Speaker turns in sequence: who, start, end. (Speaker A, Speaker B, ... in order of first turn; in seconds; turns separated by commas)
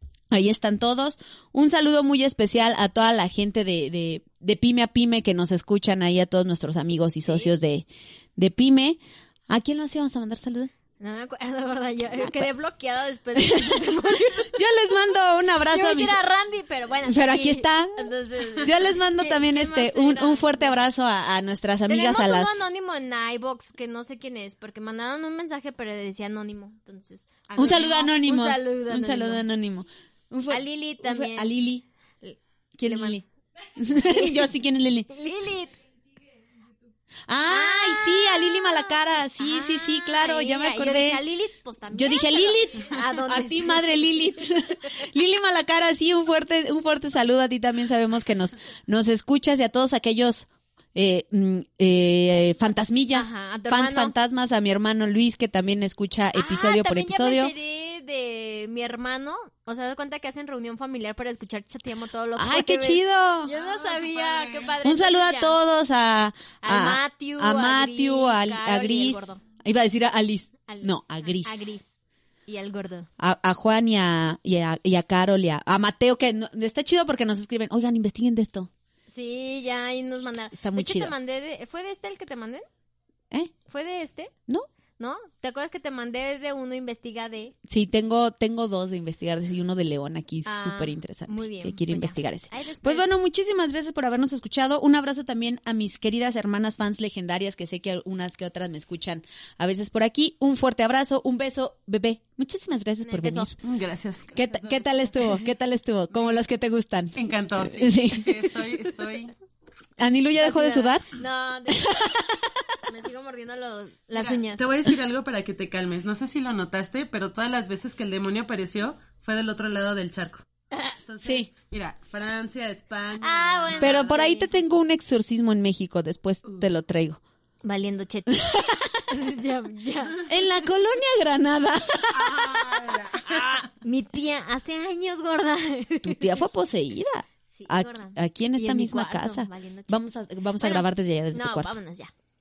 Speaker A: 0.3-10.7, Speaker B: 11.0-14.5, Speaker A: 13.4-16.2, Speaker B: 15.7-20.8, Speaker A: 17.1-18.0, Speaker A: 18.6-22.6, Speaker B: 21.9-29.4, Speaker C: 27.5-28.1, Speaker A: 27.6-31.8, Speaker B: 30.5-31.5, Speaker B: 32.2-33.2, Speaker A: 32.8-33.2, Speaker A: 33.8-35.1, Speaker B: 34.0-34.5, Speaker B: 35.1-35.8, Speaker A: 37.3-41.2, Speaker B: 37.5-43.9, Speaker A: 41.9-57.5, Speaker B: 53.1-54.1, Speaker B: 56.4-65.6, Speaker A: 62.4-63.5, Speaker C: 63.5-64.8, Speaker A: 64.8-71.8, Speaker B: 66.6-69.4, Speaker B: 70.7-73.1, Speaker A: 73.2-78.7, Speaker B: 79.1-82.7, Speaker A: 80.5-81.1, Speaker B: 83.7-84.3, Speaker B: 85.0-87.5, Speaker A: 87.7-103.5, Speaker B: 90.5-93.1, Speaker B: 103.0-103.5, Speaker C: 103.6-105.3, Speaker A: 104.3-108.3, Speaker C: 106.1-106.4, Speaker C: 107.2-109.3, Speaker A: 110.0-111.1, Speaker B: 110.4-112.0, Speaker A: 111.7-112.5, Speaker B: 112.9-114.7, Speaker C: 114.1-120.5, Speaker B: 120.7-121.0, Speaker C: 121.1-124.2, Speaker A: 121.2-121.5, Speaker B: 123.2-124.5, Speaker A: 123.8-127.2, Speaker B: 127.6-128.4, Speaker A: 128.3-129.0, Speaker B: 129.1-130.2, Speaker A: 130.3-132.6, Speaker C: 132.1-133.7, Speaker B: 133.2-136.4, Speaker A: 136.0-141.7, Speaker B: 137.5-140.1, Speaker B: 140.6-142.1